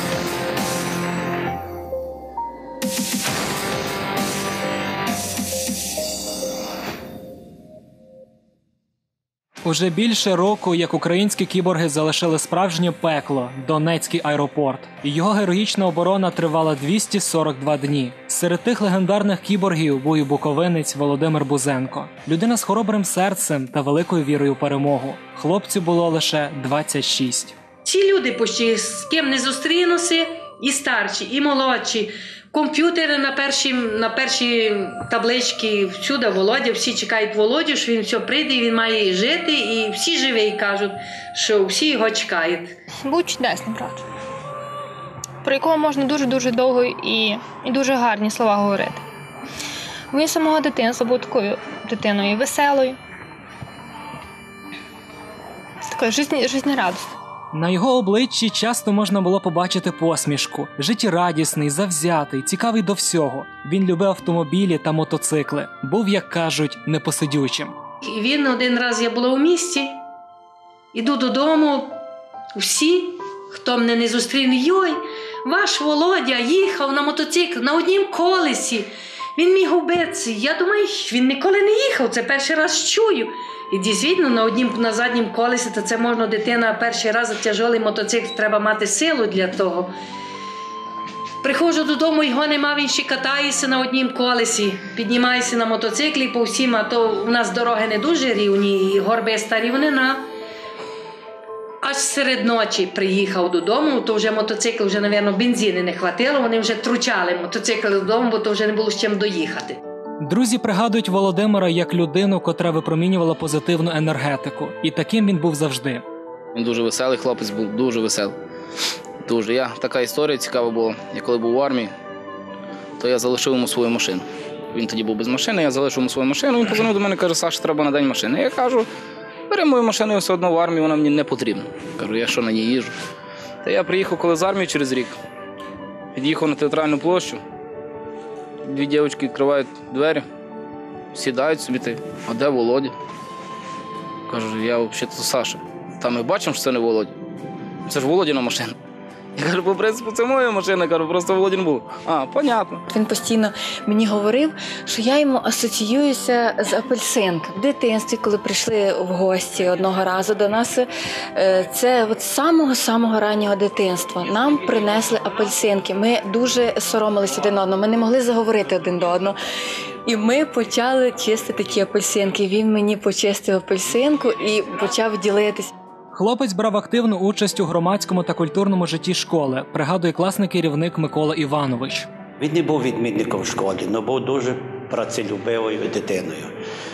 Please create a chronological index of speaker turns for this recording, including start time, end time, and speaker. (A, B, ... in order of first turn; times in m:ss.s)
0:09.6-0:27.6 A
0:27.8-0:42.7 B
0:43.0-0:44.0 C
0:45.4-0:49.0 C
0:50.1-0:53.0 C
0:55.9-0:57.2 C
0:57.5-1:07.7 A
1:08.0-1:10.0 B
1:10.9-1:12.0 B
1:12.6-1:29.9 B
1:31.4-1:40.3 B
1:41.8-1:49.8 B
1:50.2-1:56.0 A
1:56.6-1:58.4 D
1:59.3-2:01.9 D
2:03.0-2:08.9 D
2:09.5-2:13.0 D
2:13.6-2:15.2 D
2:16.2-2:17.4 D
2:18.6-2:20.3 D
2:21.1-2:23.0 D
2:24.3-2:27.1 D
2:27.9-2:28.8 D
2:29.4-2:32.8 D
2:32.9-2:49.4 E
2:50.0-2:55.7 E
2:56.1-3:02.1 A
3:02.4-3:06.5 F